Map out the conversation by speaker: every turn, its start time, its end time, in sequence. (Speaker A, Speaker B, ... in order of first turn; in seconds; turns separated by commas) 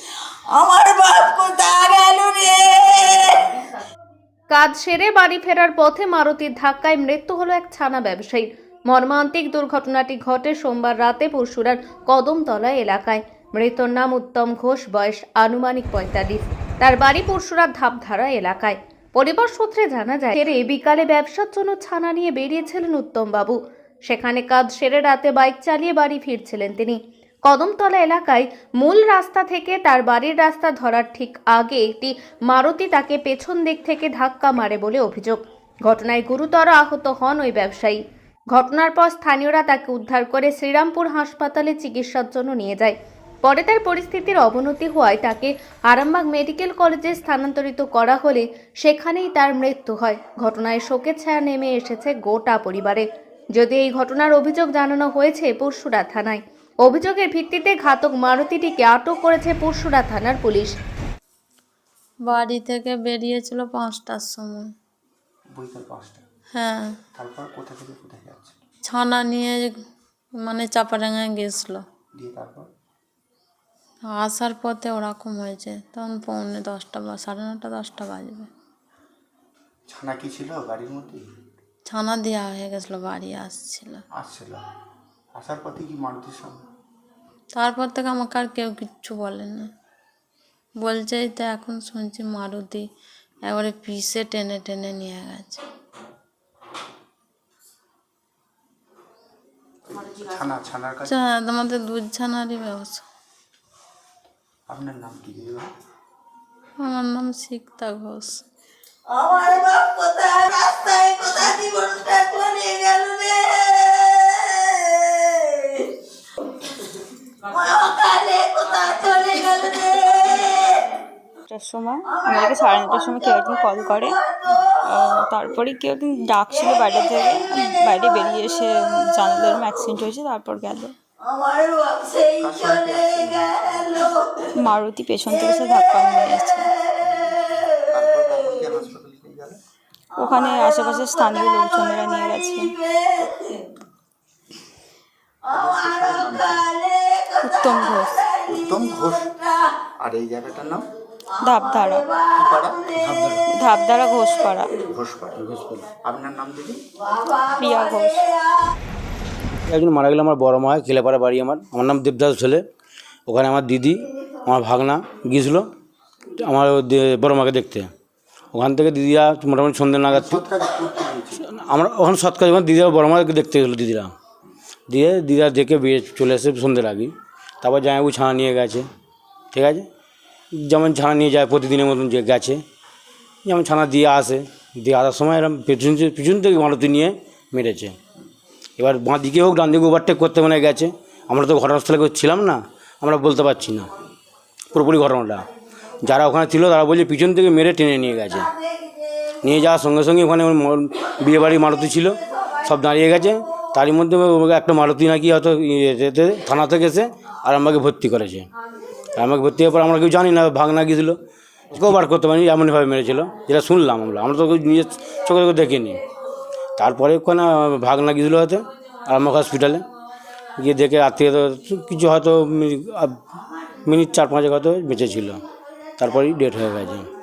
Speaker A: 0.5-3.5, Speaker B: 4.5-23.6, Speaker B: 24.1-38.0, Speaker B: 38.5-53.0, Speaker B: 53.5-60.8, Speaker C: 62.2-64.7, Speaker D: 65.5-66.2, Speaker C: 66.5-67.0, Speaker D: 67.1-68.5, Speaker C: 68.9-69.8, Speaker C: 70.4-71.8, Speaker D: 72.2-72.7, Speaker C: 74.0-78.5, Speaker D: 79.9-81.2, Speaker C: 81.8-84.0, Speaker D: 84.2-84.6, Speaker D: 85.3-86.6, Speaker C: 87.5-89.7, Speaker C: 90.8-92.9, Speaker C: 93.4-95.6, Speaker D: 99.9-101.2, Speaker C: 101.1-103.0, Speaker D: 104.7-105.7, Speaker C: 106.8-108.4, Speaker A: 109.1-115.9, Speaker A: 117.5-120.9, Speaker E: 121.5-124.2, Speaker A: 122.0-124.8, Speaker E: 124.8-130.9, Speaker A: 126.5-128.2, Speaker A: 131.2-134.3, Speaker D: 132.4-134.0, Speaker E: 134.6-136.7, Speaker A: 135.3-136.2, Speaker D: 137.0-139.6, Speaker A: 137.7-138.4, Speaker E: 140.2-142.7, Speaker A: 140.2-143.6, Speaker A: 145.4-149.8, Speaker D: 145.5-146.7, Speaker E: 147.4-148.1, Speaker D: 148.5-149.3, Speaker D: 150.0-150.9, Speaker E: 151.4-152.0, Speaker A: 151.6-153.0, Speaker D: 152.3-153.2, Speaker E: 153.5-154.7, Speaker D: 154.8-155.4, Speaker F: 155.4-155.9, Speaker D: 156.0-156.8, Speaker A: 157.0-158.6, Speaker E: 157.6-158.2, Speaker F: 159.7-162.6, Speaker F: 163.3-165.7, Speaker F: 166.4-167.9, Speaker F: 168.5-170.4, Speaker D: 170.1-171.4, Speaker F: 171.5-174.1, Speaker F: 174.9-178.9, Speaker F: 179.5-179.9, Speaker F: 180.5-182.6, Speaker F: 183.4-188.0, Speaker F: 188.8-193.9, Speaker F: 194.7-195.5, Speaker F: 196.0-198.5, Speaker F: 199.4-208.5, Speaker F: 209.1-211.2, Speaker F: 211.7-216.0, Speaker F: 216.8-219.8, Speaker F: 220.6-223.2, Speaker F: 223.8-225.4, Speaker F: 226.0-227.1